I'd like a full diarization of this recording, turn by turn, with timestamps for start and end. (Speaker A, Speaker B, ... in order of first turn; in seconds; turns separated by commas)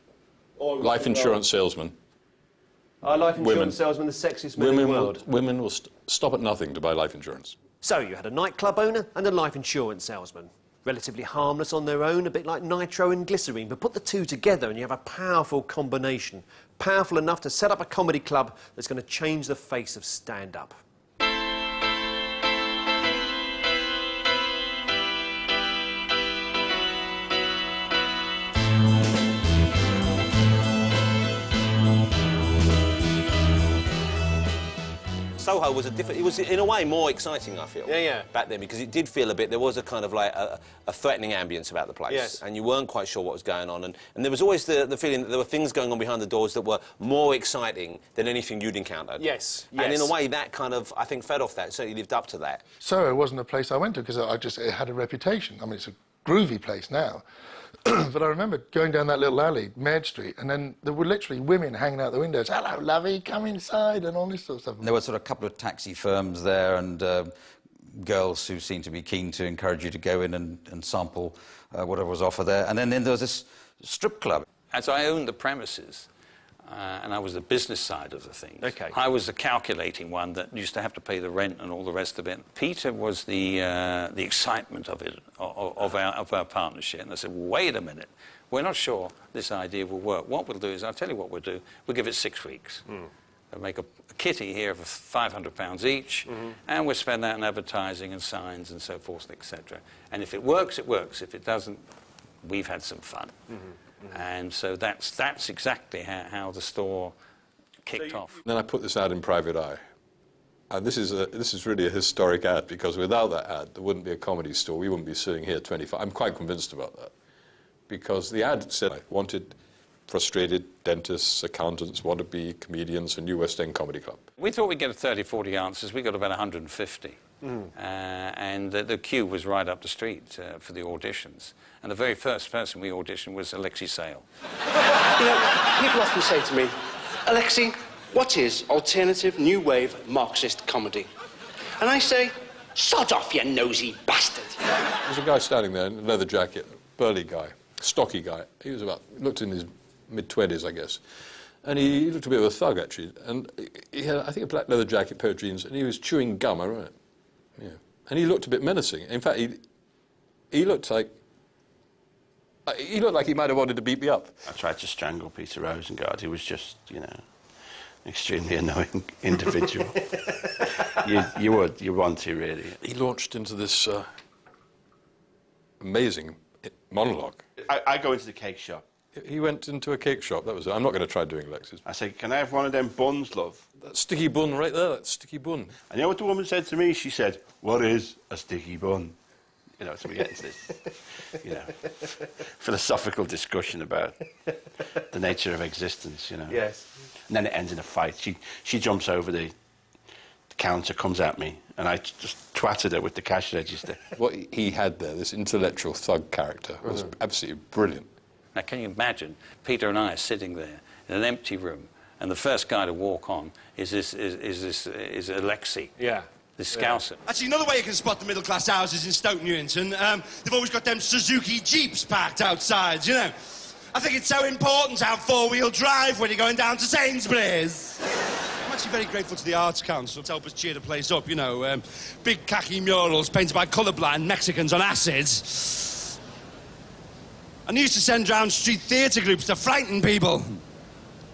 Speaker A: 0.6-1.4, Speaker B: 0.8-1.9, Speaker A: 3.0-5.2, Speaker B: 3.4-3.8, Speaker B: 4.5-7.5, Speaker A: 7.8-20.8, Speaker A: 37.9-38.2, Speaker C: 39.1-40.0, Speaker C: 40.6-43.2, Speaker A: 42.1-42.4, Speaker C: 45.1-45.9, Speaker C: 47.0-49.3, Speaker D: 52.8-57.2, Speaker D: 57.9-64.9, Speaker E: 64.8-67.3, Speaker E: 68.0-74.5, Speaker F: 74.7-76.1, Speaker F: 76.7-92.8, Speaker A: 78.6-79.0, Speaker F: 93.5-101.8, Speaker F: 102.4-103.4, Speaker F: 104.1-107.1, Speaker F: 107.8-108.4, Speaker B: 108.4-109.8, Speaker B: 110.7-117.1, Speaker B: 117.9-119.6, Speaker B: 120.1-124.2, Speaker F: 124.4-127.2, Speaker F: 127.8-134.2, Speaker G: 135.2-136.7, Speaker G: 137.3-141.1, Speaker G: 141.8-144.6, Speaker B: 145.1-151.0, Speaker B: 151.6-156.9, Speaker B: 157.6-159.6, Speaker B: 160.5-161.1, Speaker B: 162.7-164.3, Speaker H: 164.5-167.2, Speaker H: 168.0-172.8, Speaker B: 172.8-174.1, Speaker B: 175.8-177.4, Speaker H: 177.6-178.8, Speaker B: 179.2-181.8, Speaker H: 181.8-183.7, Speaker B: 183.8-185.7, Speaker H: 185.9-189.2, Speaker H: 189.8-194.3, Speaker H: 195.0-196.7, Speaker H: 197.3-199.5, Speaker H: 200.5-204.1, Speaker B: 204.2-208.1, Speaker F: 208.6-216.0, Speaker A: 216.0-216.2, Speaker F: 216.6-217.2, Speaker I: 217.3-223.3, Speaker I: 223.9-228.0, Speaker I: 228.7-236.0, Speaker I: 237.7-240.6